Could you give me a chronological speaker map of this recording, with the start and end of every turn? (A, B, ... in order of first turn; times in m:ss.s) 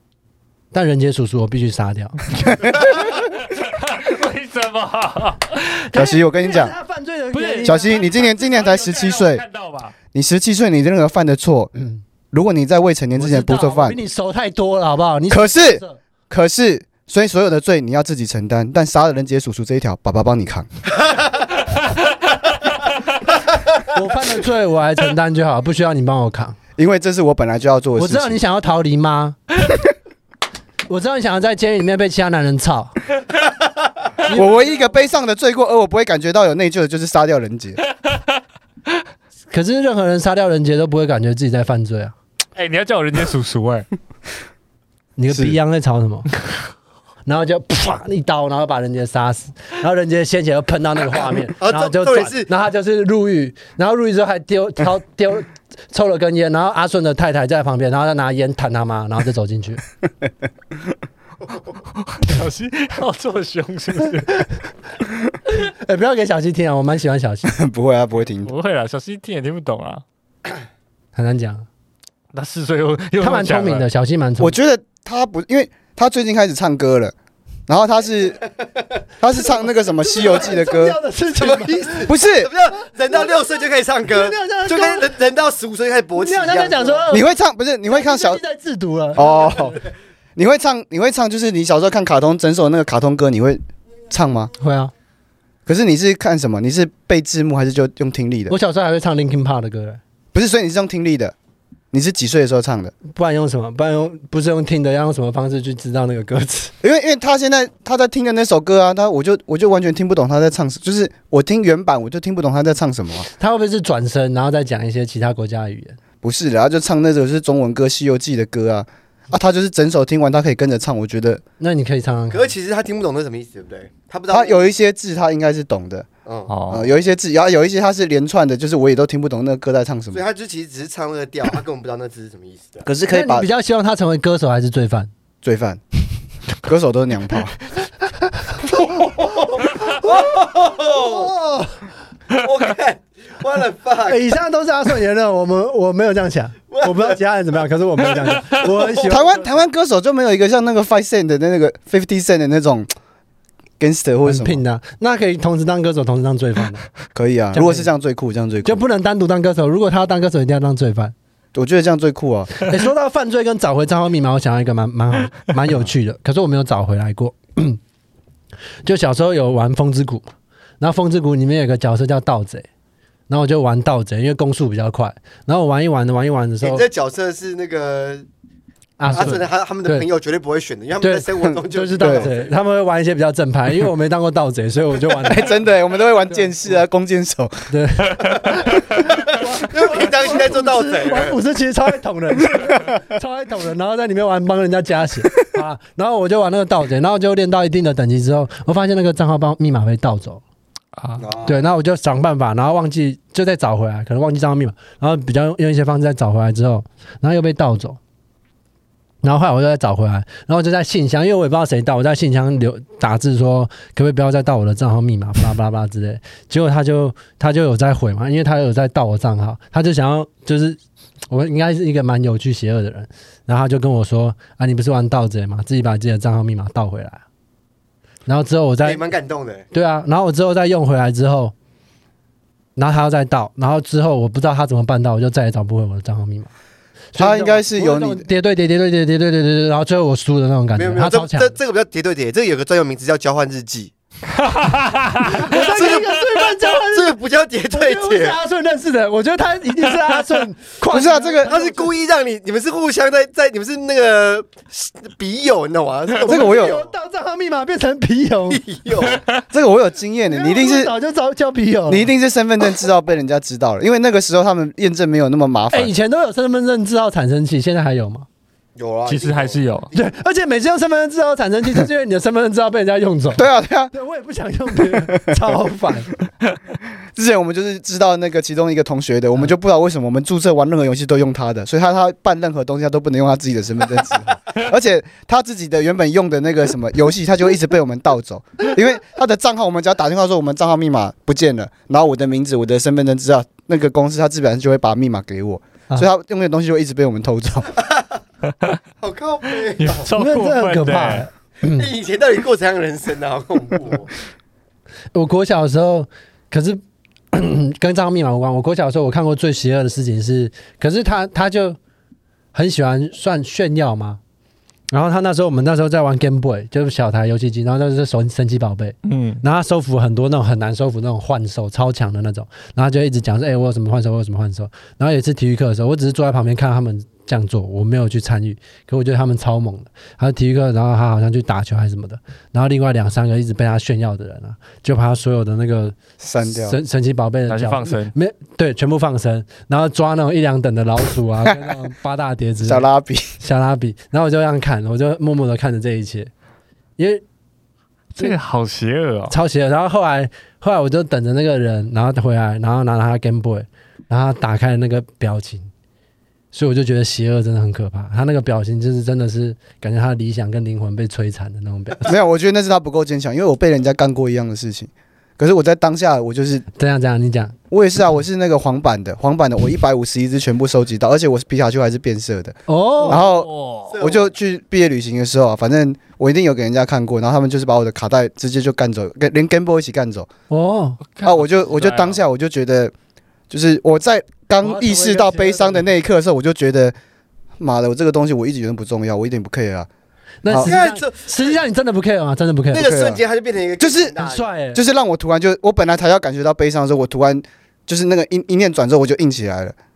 0:00.7-0:02.2 A
0:02.6-0:05.8 B
0:05.9-0:08.0 A
0:05.9-0:06.7 C
0:07.3-0:09.9 B
0:07.6-0:09.4 C
0:10.1-0:11.7 C
0:12.3-0:14.0 C
0:13.2-0:16.0 A
0:15.3-0:20.7 C
0:23.9-0:26.6 A
0:26.8-0:28.4 C
0:28.0-0:29.4 A
0:30.9-0:32.9 A
0:34.2-0:35.0 A
0:34.3-0:37.8 C
0:39.5-0:42.1 A
0:42.6-0:43.9 B
0:45.2-0:46.3 A
0:45.3-0:45.6 C
0:47.2-0:59.8 A
0:51.2-0:52.5 D
1:01.9-1:04.5 B
1:05.5-1:07.6 A
1:07.5-1:08.5 C
1:08.4-1:10.0 B
1:11.1-1:11.7 A
1:12.3-1:13.8 B
1:13.2-1:14.6 A
1:14.4-1:17.1 C
1:17.7-1:18.4 C
1:19.2-1:21.0 C
1:19.5-1:22.1 A
1:21.3-1:27.0 D
1:22.0-1:22.5 C
1:24.1-1:25.1 A
1:26.2-1:27.3 A
1:27.1-1:28.4 C
1:27.9-1:29.8 A
1:29.1-1:29.8 C
1:30.4-1:34.5 C
1:34.6-1:34.9 A
1:35.6-1:38.5 C
1:38.5-1:40.0 A
1:40.3-1:41.3 C
1:41.9-1:42.9 C
1:43.1-1:46.7 A
1:46.8-1:53.3 C
1:53.4-1:56.0 A
1:56.2-2:01.4 C
2:01.6-2:02.5 A
2:02.3-2:04.7 D
2:04.3-2:06.1 C
2:06.2-2:06.5 D
2:06.5-2:06.9 B
2:06.7-2:10.2 C
2:10.1-2:12.9 D
2:12.8-2:13.5 C
2:13.1-2:15.1 A
2:15.4-2:15.8 C
2:16.6-2:17.5 C
2:18.7-2:21.3 D
2:20.8-2:21.8 A
2:22.3-2:24.2 D
2:24.0-2:29.5 A
2:26.7-2:27.2 D
2:28.4-2:29.2 D
2:29.0-2:32.9 C
2:33.8-2:34.6 C
2:34.2-2:36.8 A
2:37.1-2:38.8 C
2:37.5-2:37.9 A
2:38.6-2:41.1 A
2:41.5-2:42.5 C
2:42.6-2:47.8 A
2:48.8-2:52.7 A
2:53.3-2:56.8 A
2:56.6-2:58.3 D
2:59.0-3:00.0 A
2:59.1-3:02.6 D
3:01.0-3:05.6 A
3:02.0-3:02.3 C
3:05.2-3:07.7 C
3:06.3-3:06.5 A
3:07.7-3:20.4 A
3:08.2-3:11.4 D
3:21.0-3:21.2 B
3:21.2-3:21.7 D
3:21.4-3:28.0 A
3:29.2-3:47.2 A
3:48.2-3:49.1 A
3:48.8-3:49.7 D
3:49.7-3:51.5 A
3:52.8-3:56.5 A
3:57.1-4:01.5 A
3:57.2-3:58.3 C
4:00.8-4:03.9 D
4:04.4-4:05.5 B
4:05.2-4:07.1 A
4:05.4-4:08.4 D
4:07.7-4:11.9 A
4:10.9-4:11.5 C
4:11.4-4:16.9 D
4:16.2-4:16.8 C
4:16.2-4:18.6 A
4:18.5-4:19.2 D
4:19.0-4:19.4 B
4:19.5-4:20.9 C
4:20.3-4:22.1 A
4:21.9-4:25.9 C
4:25.7-4:28.2 A
4:28.8-4:30.0 D
4:29.1-4:29.9 B
4:29.9-4:36.1 A
4:33.3-4:33.9 C
4:34.9-4:35.4 C
4:37.2-4:57.7 C
4:57.8-4:58.2 D
4:59.0-5:00.1 D
4:59.8-5:01.2 B
5:00.1-5:01.9 A
5:01.6-5:04.1 D
5:05.1-5:06.8 A
5:07.3-5:11.8 A
5:12.5-5:14.2 A
5:14.9-5:42.8 A
5:19.0-5:19.4 B
5:36.2-5:36.8 C
5:37.5-5:38.1 B
5:42.6-5:43.4 C
5:43.4-5:46.3 A
5:47.0-5:47.2 A
5:48.2-5:49.4 B
5:49.3-5:55.7 A
5:56.5-6:02.1 A
6:02.0-6:06.6 C
6:06.8-6:07.5 A
6:07.7-6:20.3 C
6:12.7-6:13.2 A
6:13.0-6:14.0 B
6:13.9-6:14.3 D
6:20.5-6:21.0 A
6:21.1-6:22.2 B
6:21.2-6:22.9 C
6:23.5-6:27.0 C
6:24.6-6:25.9 A
6:27.6-6:29.9 C
6:30.4-6:32.9 A
6:30.4-6:30.8 C
6:30.6-6:31.6 D
6:32.7-6:34.5 D
6:32.7-6:33.2 C
6:33.8-6:34.2 C
6:34.2-6:34.8 A
6:34.7-6:39.7 C